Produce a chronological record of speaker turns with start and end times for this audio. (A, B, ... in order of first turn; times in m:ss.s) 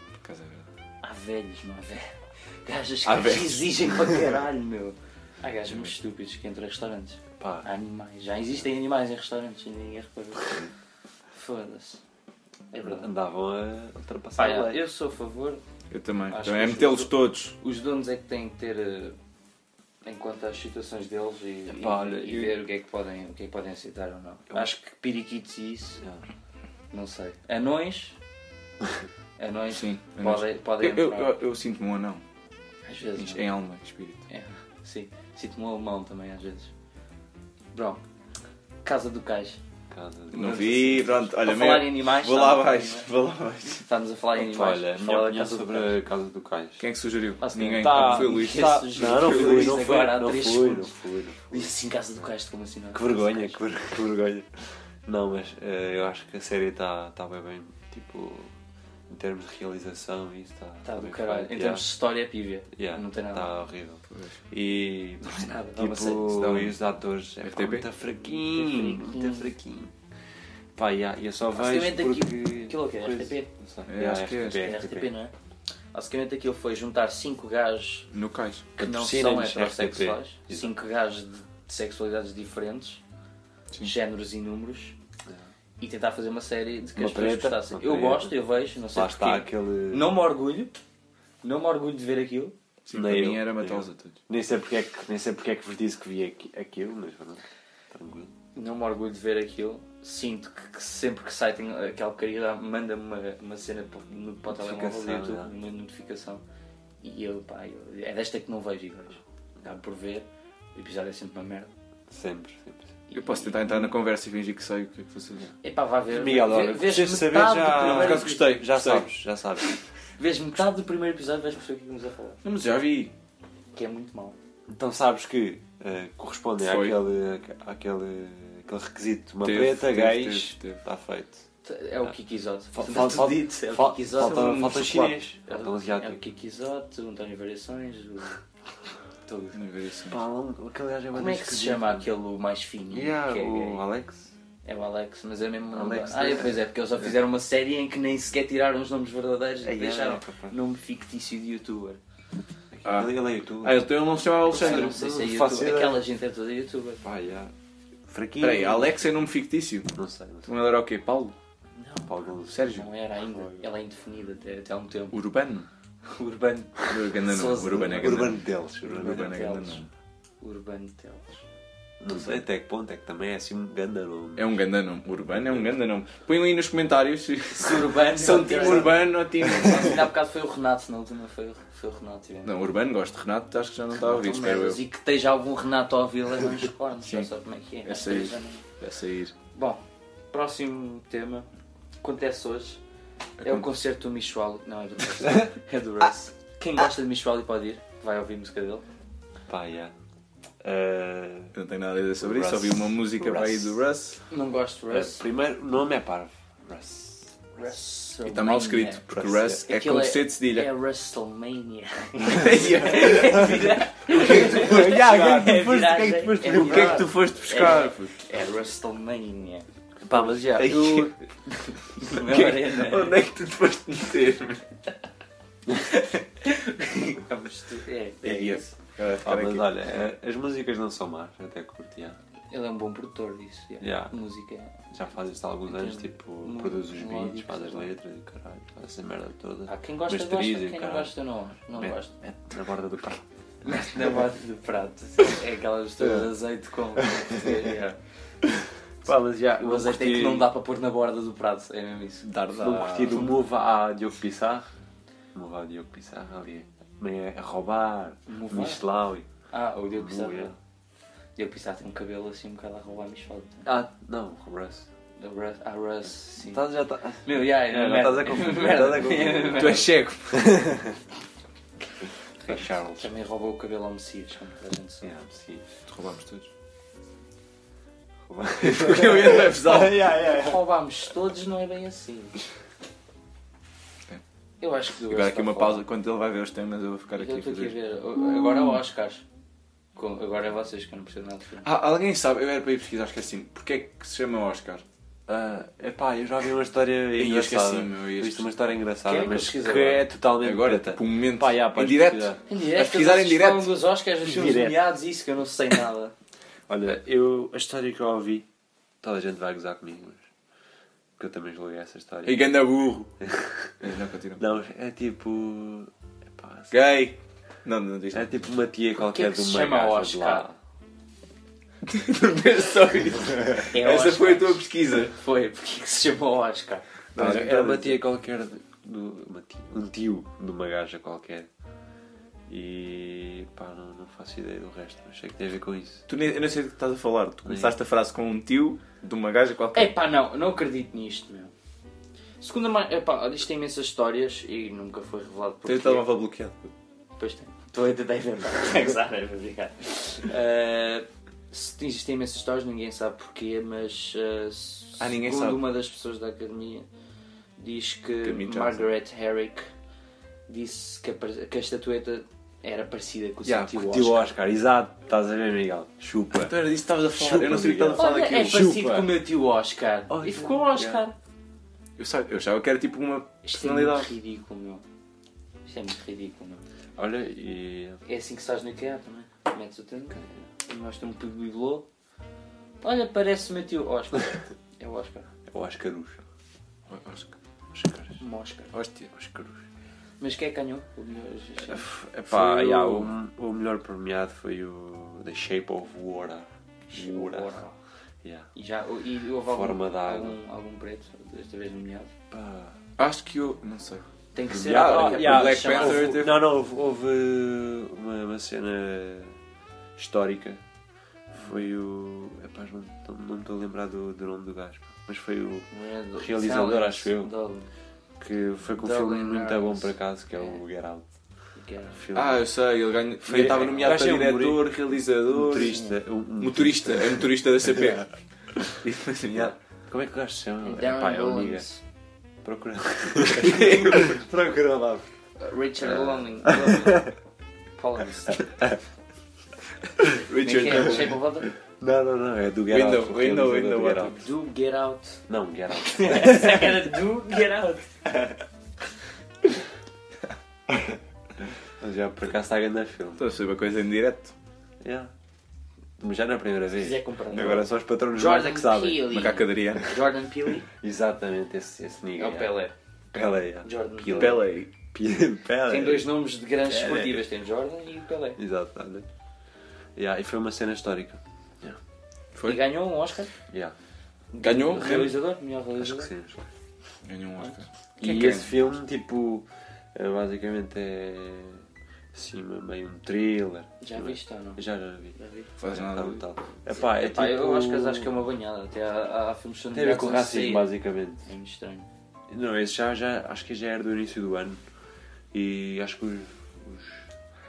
0:00.2-0:00.7 A
0:01.0-0:10.7 B
0:03.0-0:04.1 A
0:05.7-0:05.9 A
0:07.4-0:07.7 C
0:11.3-0:12.0 B
0:12.7-0:13.1 B
0:12.8-0:14.8 C
0:14.4-0:15.6 B
0:15.9-0:17.6 A
0:16.3-0:19.2 B
0:20.0-0:26.0 B
0:21.7-0:22.6 C
0:26.9-0:28.2 B
0:29.4-0:31.4 B
0:29.7-0:32.2 A
0:32.8-0:33.5 B
0:33.2-0:34.2 A
0:34.3-0:36.7 B
0:37.7-0:38.0 B
0:38.8-0:39.6 B
0:39.9-0:41.3 C
0:40.3-0:43.8 A
0:41.4-0:43.1 B
0:43.8-0:45.9 B
0:44.3-0:46.8 C
0:46.8-0:49.8 A
0:47.4-0:50.9 B
0:47.7-0:51.7 C
0:51.5-0:53.6 B
0:52.9-0:58.5 C
0:59.1-1:01.9 C
1:00.8-1:03.5 B
1:02.7-1:09.9 C
1:04.1-1:04.4 A
1:05.2-1:06.4 B
1:06.2-1:06.8 A
1:07.4-1:07.8 A
1:08.3-1:09.6 B
1:10.8-1:15.1 C
1:11.5-1:13.5 B
1:13.9-1:14.7 A
1:14.6-1:15.3 B
1:15.9-1:18.1 B
1:18.1-1:18.7 A
1:18.8-1:23.0 B
1:18.8-1:20.7 C
1:23.8-1:24.9 B
1:25.3-1:25.5 C
1:25.8-1:30.8 B
1:27.0-1:28.3 C
1:28.9-1:30.1 C
1:31.4-1:32.5 B
1:32.8-1:34.2 A
1:32.9-1:38.3 C
1:38.5-1:46.4 B
1:44.5-1:45.5 C
1:47.0-1:51.7 B
1:52.1-1:52.9 C
1:53.1-1:53.9 B
1:53.1-1:55.5 A
1:55.6-1:58.6 B
1:56.1-1:59.7 C
1:57.7-1:59.1 A
2:00.2-2:02.4 B
2:02.4-2:03.1 A
2:03.7-2:04.4 B
2:04.7-2:11.4 C
2:06.6-2:07.0 A
2:09.4-2:10.8 A
2:11.6-2:18.4 B
2:12.7-2:16.2 C
2:14.2-2:15.1 A
2:19.2-2:19.6 B
2:19.5-2:20.2 A
2:20.1-2:22.1 C
2:21.1-2:23.8 B
2:22.9-2:24.3 C
2:24.6-2:32.0 B
2:25.7-2:26.6 C
2:29.6-2:30.6 C
2:32.7-2:33.9 C
2:32.8-2:35.0 A
2:34.4-2:37.0 B
2:34.5-2:36.0 C
2:37.0-2:37.5 C
2:38.1-2:39.0 C
2:38.4-2:39.9 A
2:39.9-2:40.5 C
2:40.4-2:41.4 A
2:41.8-2:42.1 B
2:42.0-2:42.7 C
2:42.5-2:42.9 A
2:42.6-2:45.2 B
2:43.4-2:43.7 C
2:45.1-2:45.7 A
2:46.1-2:48.3 B
2:46.9-2:49.9 A
2:47.7-2:49.4 C
2:49.0-2:49.8 B
2:50.4-2:51.4 B
2:52.0-2:54.6 C
2:52.1-2:52.4 A
2:54.4-3:00.1 A
2:55.4-2:55.7 C
2:57.6-3:02.5 B
2:58.5-2:59.7 C
3:02.4-3:04.8 A
3:04.0-3:08.6 B
3:07.8-3:09.3 A
3:09.5-3:11.5 B
3:12.0-3:12.8 B
3:13.4-3:13.7 A
3:13.4-3:18.8 B
3:19.5-3:19.9 C
3:20.6-3:21.6 C
3:21.5-3:24.2 A
3:22.2-3:23.8 C
3:24.3-3:25.2 B
3:24.9-3:27.7 C
3:27.6-3:29.0 B
3:28.2-3:30.7 A
3:29.1-3:29.6 C
3:29.6-3:39.6 B
3:32.2-3:35.3 A
3:34.1-3:37.8 C
3:36.5-3:38.1 A
3:40.0-3:41.1 C
3:40.3-3:41.1 A
3:41.5-3:43.2 B
3:42.0-3:44.6 A
3:46.4-3:48.7 B
3:48.2-3:49.7 A
3:49.2-3:52.2 C
3:52.5-3:54.9 B
3:53.8-3:54.1 C
3:54.9-4:01.1 C
3:55.6-3:57.9 B
3:59.7-4:02.1 B
4:01.8-4:03.2 C
4:03.6-4:08.0 B
4:09.0-4:10.5 C
4:09.6-4:12.3 B
4:12.2-4:13.2 A
4:12.5-4:14.7 C
4:12.9-4:13.3 B
4:15.3-4:19.3 C
4:18.3-4:18.8 B
4:19.5-4:20.5 B
4:19.9-4:20.6 C
4:21.4-4:23.7 B
4:23.6-4:24.9 C
4:25.2-4:26.6 B
4:26.4-4:31.0 C
4:27.2-4:29.9 B
4:29.7-4:30.2 A
4:32.4-4:35.1 B
4:32.4-4:33.1 C
4:35.0-4:35.7 C
4:35.9-4:36.4 A
4:38.2-4:40.6 C
4:38.6-4:40.3 A
4:40.0-4:42.4 B
4:44.6-4:45.8 B
4:45.0-4:48.8 A
4:47.1-4:49.2 B
4:49.9-4:51.7 B
4:51.6-4:54.8 A
4:55.3-5:02.4 C
4:57.2-4:58.5 A
4:59.0-5:00.1 B
5:00.4-5:03.7 A
5:02.5-5:06.1 B
5:04.2-5:04.9 C
5:06.7-5:08.5 C
5:09.0-5:10.2 C
5:11.2-5:12.4 C
5:12.2-5:13.1 A
5:13.2-5:13.8 C
5:13.8-5:14.4 A
5:14.4-5:16.7 C
5:16.7-5:18.5 A
5:18.1-5:20.6 C
5:18.9-5:20.4 B
5:21.8-5:25.1 A
5:23.6-5:26.8 B
5:27.1-5:28.0 A
5:27.2-5:31.5 C
5:32.5-5:36.0 C
5:36.1-5:39.9 A
5:37.4-5:37.8 C
5:39.7-5:41.5 B
5:42.4-5:46.0 B
5:45.6-5:46.7 A
5:47.2-5:56.8 B
5:55.0-5:55.6 A
5:57.6-5:59.7 B
5:58.2-5:58.8 A
6:00.5-6:04.3 B
6:03.4-6:03.7 A
6:03.7-6:06.6 C
6:06.3-6:08.6 A
6:07.1-6:09.1 C
6:08.0-6:11.2 B
6:10.1-6:11.0 C
6:12.0-6:14.1 A
6:13.4-6:14.8 B
6:15.6-6:16.6 B
6:17.0-6:18.0 C
6:18.0-6:21.9 B
6:22.8-6:25.3 B
6:25.5-6:26.2 C
6:26.9-6:27.3 A
6:27.7-6:28.2 C
6:28.2-6:28.7 B
6:28.7-6:29.1 A
6:29.1-6:29.6 C
6:30.2-6:31.9 B
6:31.6-6:37.5 C
6:32.2-6:33.1 A
6:36.9-6:37.7 B
6:38.2-6:38.5 C
6:38.5-6:42.1 B
6:39.5-6:40.4 C
6:42.3-6:42.8 C
6:43.0-6:46.5 A
6:44.3-6:46.2 B
6:44.5-6:49.4 C
6:50.0-6:50.6 C
6:51.3-6:57.3 C
6:55.7-6:57.7 B
6:58.2-7:01.1 C
6:58.8-7:00.6 B
7:01.6-7:02.0 B
7:01.9-7:02.5 C
7:02.1-7:05.8 A
7:03.2-7:08.0 C
7:05.6-7:06.0 B
7:06.4-7:08.1 A
7:08.6-7:09.5 A
7:09.3-7:11.6 C
7:10.6-7:11.8 B
7:12.4-7:15.1 C
7:13.2-7:14.2 A
7:15.4-7:17.1 B
7:15.8-7:17.1 C
7:17.8-7:18.4 B
7:20.0-7:21.2 A
7:20.3-7:21.5 B
7:21.8-7:24.2 C
7:22.7-7:24.2 A
7:24.1-7:25.2 B
7:25.3-7:26.8 C
7:25.7-7:28.3 B
7:31.6-7:33.2 C
7:33.2-7:34.3 A
7:34.8-7:35.1 C
7:36.0-7:39.2 C
7:36.8-7:40.7 B
7:39.1-7:40.0 A
7:40.7-7:42.5 C
7:42.2-7:42.7 B
7:43.1-7:46.1 C
7:43.6-7:44.4 B
7:44.1-7:44.7 A
7:45.6-7:48.4 B
7:46.6-7:47.2 C
7:48.4-7:49.0 C
7:50.0-7:51.8 C
7:52.3-7:52.6 A
7:52.4-7:53.3 B
7:53.5-7:53.7 C
7:54.3-7:56.1 B
7:54.4-7:55.2 A
7:54.8-7:55.1 C
7:55.8-7:56.5 C
7:57.0-7:58.5 A
7:58.0-8:05.2 C
8:03.8-8:04.6 B
8:05.1-8:05.5 B
8:05.6-8:06.2 A
8:05.7-8:08.1 C
8:06.7-8:10.7 B
8:09.7-8:11.3 C
8:11.2-8:11.9 B
8:12.3-8:14.6 C
8:15.3-8:17.1 C